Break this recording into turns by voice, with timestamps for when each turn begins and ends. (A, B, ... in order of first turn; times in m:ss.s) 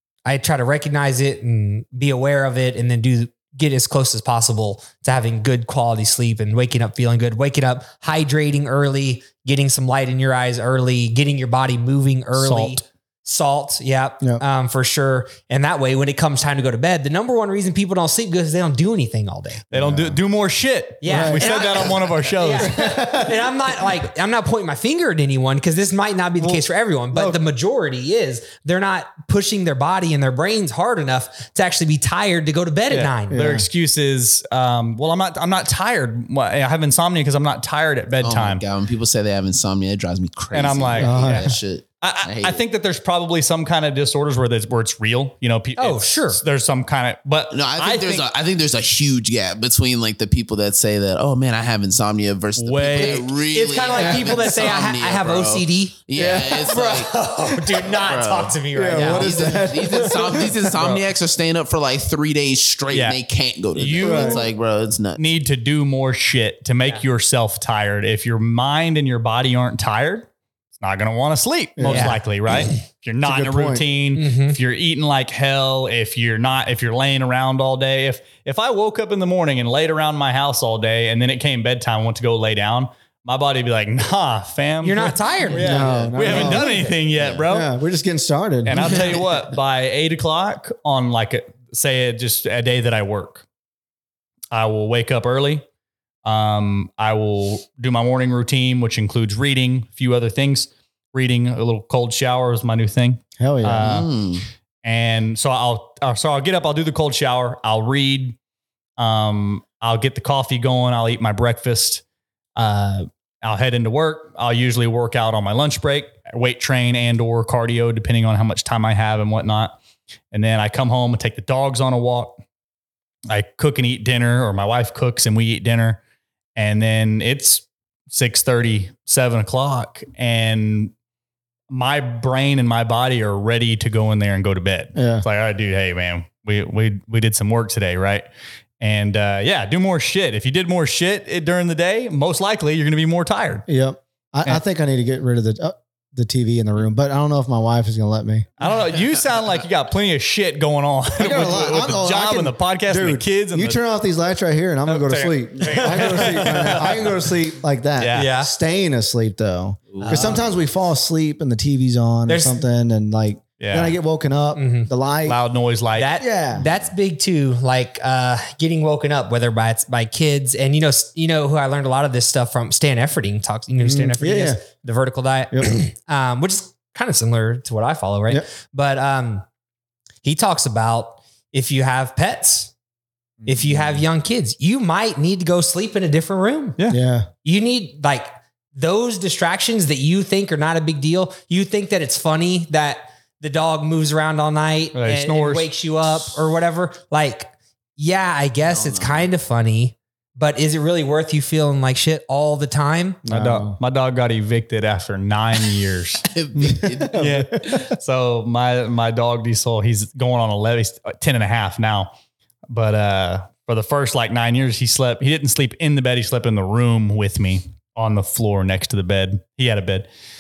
0:00.3-0:19.7 A
0:12.4-0:12.8 B
0:19.7-0:23.1 B
0:19.7-0:20.2 C
0:21.0-0:33.4 A
0:21.1-0:21.5 C
0:21.4-0:22.2 D
0:22.6-0:23.4 C
0:26.4-0:27.4 C
0:32.9-0:38.6 B
0:33.3-0:33.7 C
0:38.2-0:42.6 D
0:40.5-0:48.3 B
0:41.0-0:41.6 C
0:45.8-0:46.4 A
0:47.5-1:05.2 D
0:52.6-0:53.3 B
0:53.0-1:00.4 A
0:54.0-0:54.3 C
0:56.1-0:56.7 C
0:58.8-1:01.0 C
1:02.9-1:03.2 B
1:03.7-1:04.5 B
1:04.0-1:04.4 C
1:05.2-1:27.7 B
1:11.8-1:12.2 C
1:11.9-1:12.2 A
1:13.2-1:13.8 C
1:14.2-1:14.6 A
1:24.8-1:26.9 A
1:25.5-1:26.9 C
1:25.6-1:26.6 D
1:27.1-1:27.4 D
1:27.5-1:29.2 C
1:28.6-1:33.4 B
1:28.7-1:29.4 D
1:34.5-1:35.6 B
1:36.2-1:44.2 B
1:43.4-1:44.0 C
1:43.8-1:44.4 D
1:44.8-1:48.4 B
1:49.0-1:52.0 B
1:52.6-1:59.8 B
2:00.3-2:02.4 B
2:03.3-2:06.0 B
2:06.6-2:10.9 B
2:11.7-2:18.3 B
2:15.0-2:15.2 C
2:18.8-2:23.7 B
2:23.7-2:28.5 C
2:28.6-2:33.8 B
2:31.2-2:45.4 C
2:34.9-2:37.1 B
2:36.0-2:36.7 A
2:38.0-2:38.3 B
2:38.1-2:38.5 A
2:39.9-2:40.4 D
2:40.0-2:40.4 A
2:42.3-2:42.6 A
2:43.6-2:43.9 B
2:44.6-2:44.9 A
2:45.3-2:46.1 B
2:46.0-2:59.4 A
2:46.2-2:46.7 C
2:53.8-2:54.6 C
2:55.5-2:55.8 C
3:00.2-3:02.7 A
3:03.4-3:04.0 C
3:03.5-3:06.8 A
3:06.9-3:07.3 C
3:07.4-3:23.2 A
3:14.9-3:15.7 B
3:18.7-3:19.3 D
3:23.2-3:23.8 C
3:23.3-3:32.1 B
3:26.3-3:27.2 D
3:26.6-3:27.8 C
3:32.7-3:40.1 B